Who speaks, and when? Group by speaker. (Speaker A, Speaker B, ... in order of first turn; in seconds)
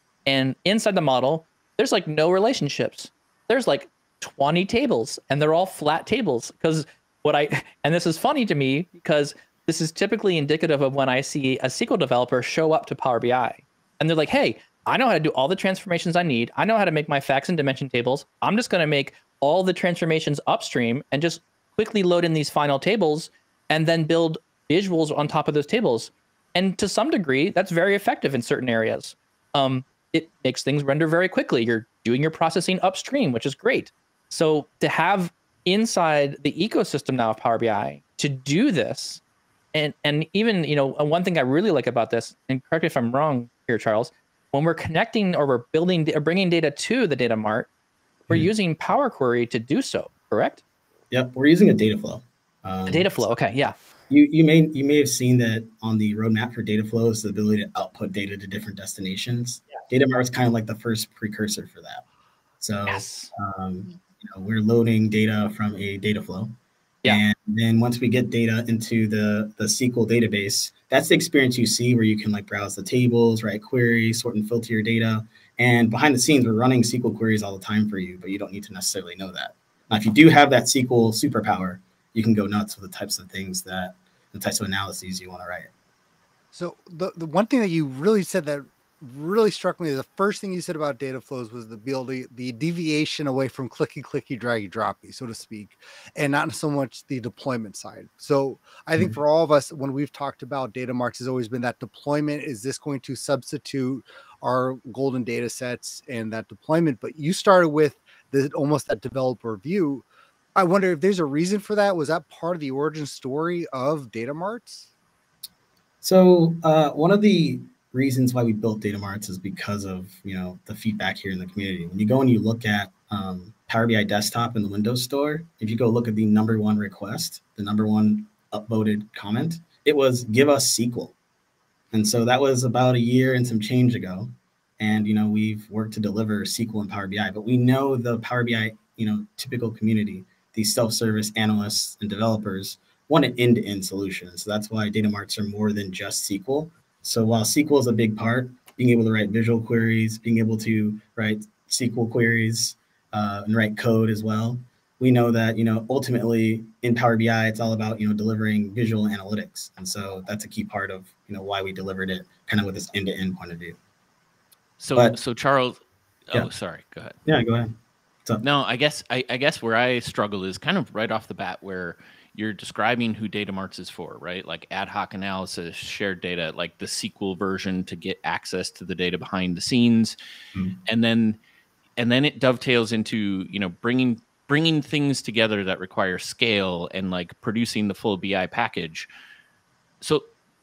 Speaker A: 0.3-39.2, 39.7-47.7, 48.3-50.6, 52.9-53.8, 62.9-63.3
Speaker B: 51.1-53.3, 54.1-62.0, 62.6-66.5, 67.0-85.7, 116.0-131.2, 131.9-163.8, 167.3-168.4
Speaker C: 86.5-110.0, 110.6-114.9
Speaker D: 164.8-165.8, 166.3-167.2, 168.4-180.2, 180.9-181.4, 182.0-189.1